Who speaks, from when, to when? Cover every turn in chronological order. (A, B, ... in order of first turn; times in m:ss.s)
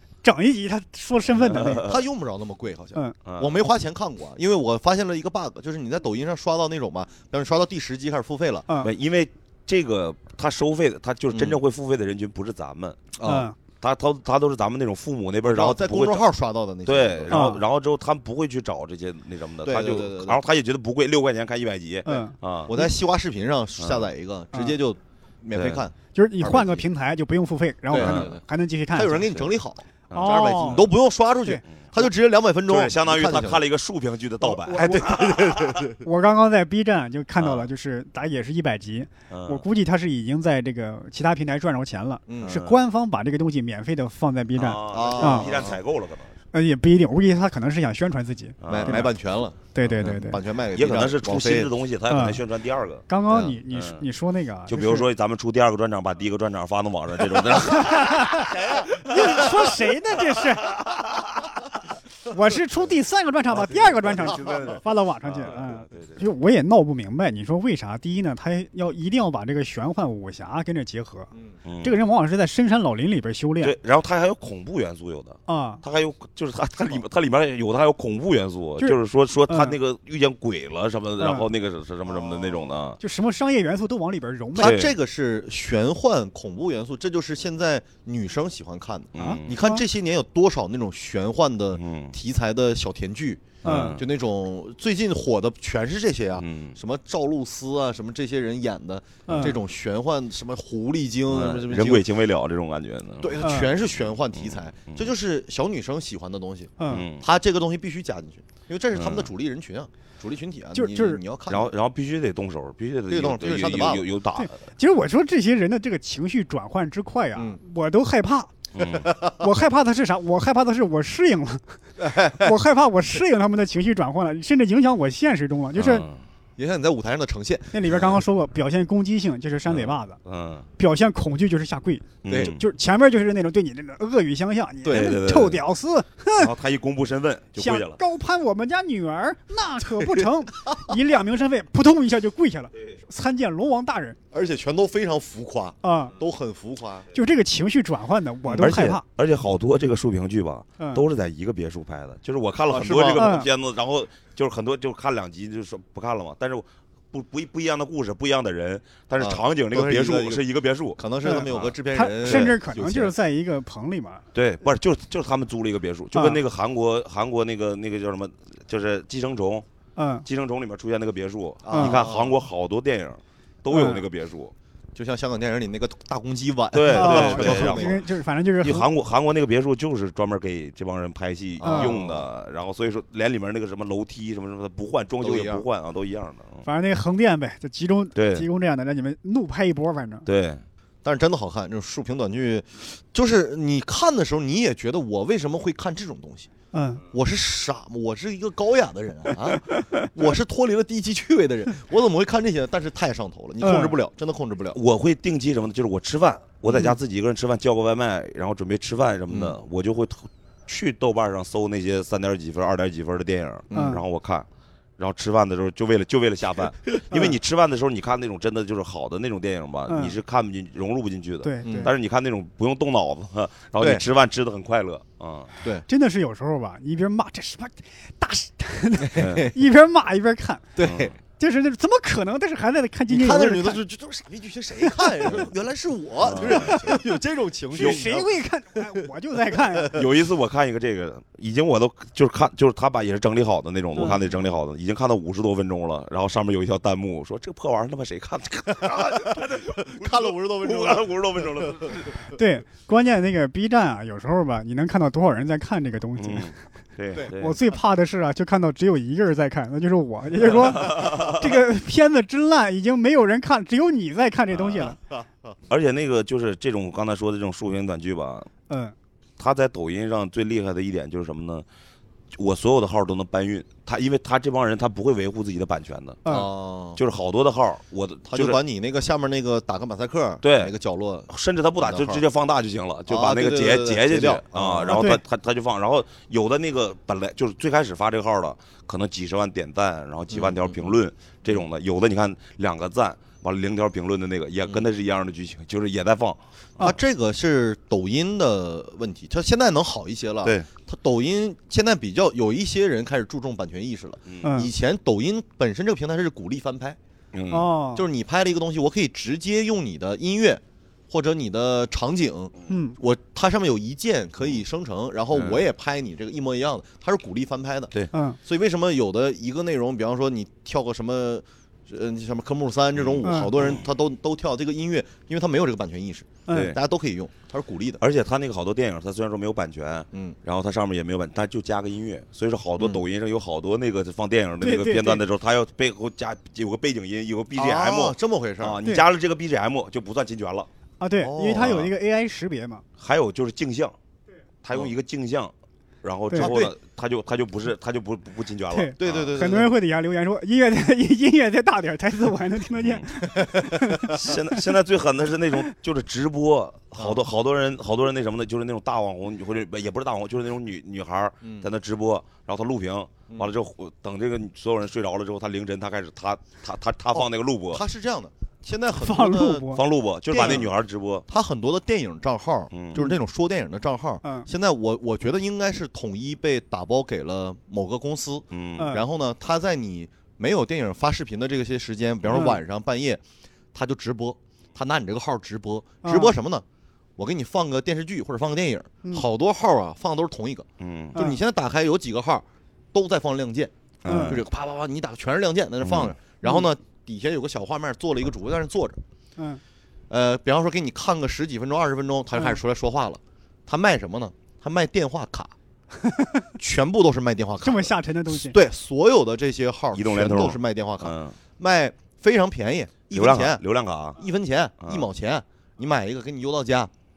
0:00.2-0:01.9 A
0:01.4-0:02.0 B
0:01.8-0:08.7 C
0:03.2-0:03.6 B
0:08.8-0:13.1 B
0:11.3-0:11.6 C
0:13.2-0:13.5 C
0:13.2-0:13.6 A
0:13.8-0:16.2 B
0:15.4-0:17.5 C
0:16.9-0:22.7 B
0:17.3-0:17.6 A
0:19.6-0:20.4 C
0:22.0-0:22.9 A
0:22.7-0:26.8 C
0:23.8-0:24.1 B
0:25.5-0:25.8 B
0:26.1-0:29.3 A
0:27.9-0:28.4 C
0:27.9-0:28.4 B
0:28.9-0:33.7 C
0:29.2-0:29.5 B
0:30.1-0:30.9 B
0:30.1-0:30.9 A
0:31.7-0:32.1 B
0:32.7-0:35.8 B
0:34.4-0:35.4 A
0:34.7-0:36.0 C
0:36.0-0:45.5 A
0:37.4-0:37.7 B
0:39.3-0:39.6 B
0:42.3-0:42.6 C
0:42.4-0:42.8 B
0:44.6-0:46.3 B
0:44.9-0:45.8 C
0:46.5-0:49.1 A
0:48.6-0:49.1 B
0:48.7-0:51.7 C
0:49.7-0:50.4 A
0:49.8-0:50.1 B
0:50.7-0:54.0 B
0:52.1-0:52.4 A
0:53.1-0:55.1 A
0:54.7-0:59.7 B
0:57.5-1:00.8 A
0:58.5-0:59.3 C
1:00.4-1:01.6 B
1:02.3-1:11.3 A
1:03.5-1:06.2 B
1:11.6-1:12.0 B
1:11.8-1:13.7 A
1:13.6-1:23.0 B
1:15.5-1:15.8 A
1:19.5-1:19.8 A
1:21.2-1:21.5 A
1:22.1-1:22.7 C
1:23.0-1:24.8 A
1:24.6-1:42.1 C
1:24.6-1:24.9 B
1:29.1-1:29.6 B
1:29.2-1:29.8 A
1:31.8-1:32.1 B
1:33.6-1:34.1 B
1:33.6-1:34.0 A
1:36.4-1:36.8 B
1:39.3-1:39.6 A
1:41.3-1:43.4 B
1:43.2-1:51.7 C
1:43.4-1:43.7 A
1:44.3-1:45.1 B
1:46.8-1:47.1 A
1:46.9-1:47.2 B
1:49.0-1:49.3 B
1:50.7-1:51.2 A
1:51.5-1:54.6 B
1:53.1-1:54.1 C
1:54.4-1:58.5 A
1:58.8-1:59.1 B
1:59.0-1:59.4 C
1:59.4-2:06.1 A
2:02.0-2:02.6 C
2:05.8-2:06.2 B
2:06.6-2:07.9 C
2:07.7-2:10.2 A
2:07.9-2:08.1 B
2:09.7-2:10.7 B
2:10.8-2:16.5 A
2:12.2-2:12.6 B
2:12.3-2:12.5 C
2:14.8-2:15.2 C
2:14.9-2:15.6 B
2:16.4-2:18.0 B
2:17.6-2:24.2 A
2:24.3-2:27.1 C
2:25.8-2:26.1 A
2:27.1-2:29.0 A
2:28.5-2:42.6 B
2:30.8-2:31.0 A
2:32.7-2:33.3 C
2:33.1-2:33.5 A
2:39.2-2:43.1 C
2:41.2-2:44.2 A
2:44.3-2:49.6 B
2:46.1-2:46.4 A
2:50.0-2:50.3 A
2:50.2-2:54.5 B
2:51.6-2:52.4 C
2:51.7-2:52.0 A
2:53.7-2:54.0 A
2:55.0-2:58.0 C
2:56.7-2:58.0 B
2:56.9-2:58.9 A
2:58.6-3:06.7 B
3:01.6-3:02.3 C
3:01.6-3:02.0 A
3:05.2-3:05.6 C
3:06.6-3:10.3 A
3:08.2-3:08.5 B
3:10.2-3:10.6 B
3:11.0-3:16.5 C
3:16.7-3:17.0 A
3:17.1-3:24.8 C
3:19.6-3:20.1 A
3:23.6-3:24.0 A
3:24.7-3:34.5 B
3:29.3-3:29.6 C
3:33.7-3:34.0 C
3:33.7-3:34.0 A
3:35.0-3:45.5 B
3:39.9-3:40.2 A
3:41.4-3:41.9 A
3:41.6-3:41.9 C
3:43.8-3:44.0 C
3:45.9-3:50.8 A
3:49.0-3:49.6 C
3:49.2-3:49.5 B
3:50.8-3:51.1 C
3:50.8-3:51.1 B
3:51.4-3:53.8 A
3:53.1-3:58.3 C
3:54.8-3:55.4 A
3:56.2-3:57.0 B
3:56.5-3:56.8 A
3:57.7-4:00.0 A
3:57.8-3:58.0 B
3:59.5-4:00.1 C
3:59.9-4:12.2 B
4:04.0-4:04.4 C
4:08.9-4:12.0 C
4:12.3-4:16.5 A
4:16.2-4:17.6 B
4:17.3-4:25.0 A
4:20.5-4:21.5 B
4:24.5-4:24.9 B
4:25.0-4:25.6 C
4:25.7-4:28.5 B
4:28.7-4:29.0 A
4:29.4-4:31.6 B
4:32.3-4:36.2 B
4:36.3-4:37.0 C
4:37.0-4:38.6 B
4:38.3-4:42.2 C
4:40.4-4:40.7 B
4:41.3-4:56.9 B
4:43.1-4:45.1 C
4:44.9-4:45.2 A
4:50.3-4:50.9 C
4:56.8-5:07.0 C
5:04.4-5:04.7 A
5:07.3-5:07.7 B
5:07.5-5:08.0 A
5:08.0-5:17.9 C
5:12.7-5:13.0 A
5:15.3-5:15.6 B
5:18.1-5:18.4 A
5:18.4-5:28.0 C
5:23.0-5:23.8 B
5:23.2-5:23.5 A
5:26.5-5:26.8 A
5:26.5-5:26.8 B
5:28.0-5:40.7 B
5:30.1-5:30.4 C
5:32.8-5:33.0 C
5:34.6-5:35.2 A
5:37.5-5:38.8 C
5:41.0-5:42.8 A
5:41.2-5:41.8 C
5:41.6-5:41.9 B
5:43.0-5:43.9 B
5:44.6-5:49.5 B
5:46.4-5:46.7 C
5:48.7-5:54.6 A
5:49.0-5:49.7 C
5:52.8-5:53.1 B
5:54.0-6:07.8 B
6:01.4-6:01.7 C
6:07.1-6:09.7 C
6:09.0-6:09.8 A
6:09.7-6:11.3 B
6:10.3-6:10.7 C
6:10.4-6:10.6 A
6:11.3-6:23.2 C
6:12.7-6:13.1 B
6:18.5-6:19.0 B
6:18.8-6:19.0 A
6:22.3-6:22.6 A
6:23.7-6:26.6 C
6:26.0-6:26.4 A
6:27.2-6:39.0 C
6:30.8-6:31.2 B
6:31.1-6:31.4 A
6:34.0-6:34.4 B
6:34.0-6:34.4 A
6:35.8-6:36.2 B
6:40.1-6:45.5 C
6:46.0-6:46.5 A
6:46.6-6:53.6 C
6:47.6-6:48.6 A
6:49.9-6:51.4 B
6:53.1-6:54.2 B
6:54.2-6:56.9 C
6:54.8-6:55.1 B